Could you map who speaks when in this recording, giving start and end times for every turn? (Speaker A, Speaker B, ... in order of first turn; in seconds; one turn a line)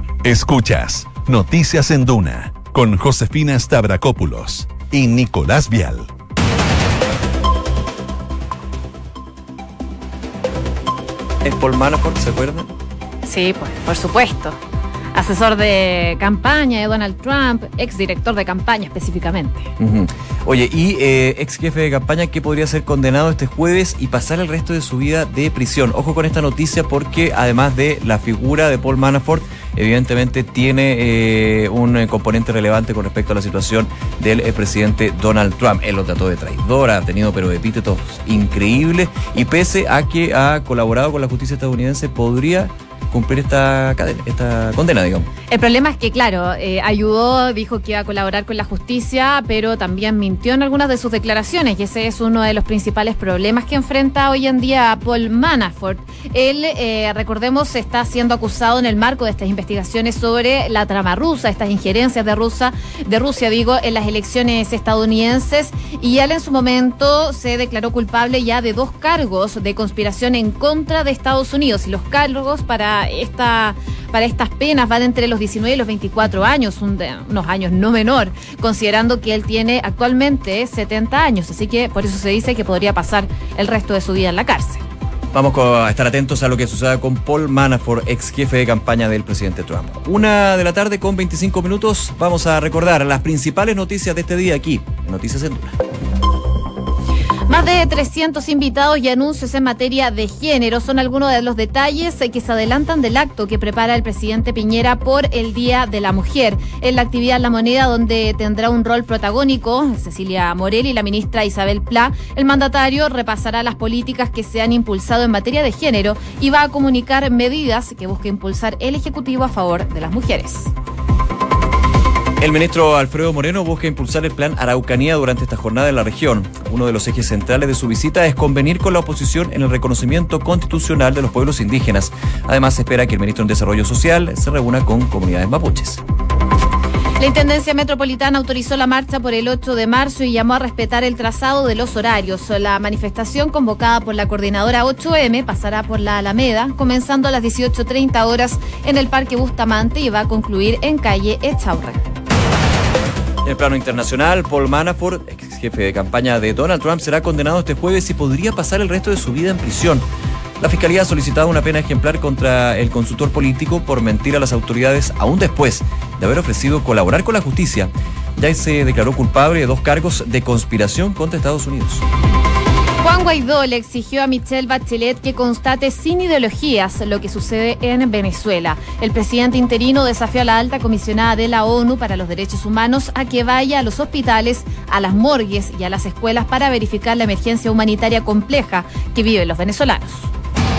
Speaker A: 0.2-6.1
Speaker B: 11.4-12.7
Speaker C: 13.2-14.6
Speaker C: 15.1-19.7
Speaker B: 19.8-45.3
Speaker C: 45.5-84.8
Speaker B: 85.3-95.7
Speaker C: 97.5-120.7
Speaker B: 122.4-136.0
Speaker C: 137.2-152.0
Speaker B: 153.4-160.0
Speaker B: 160.6-172.0
Speaker C: 173.0-190.3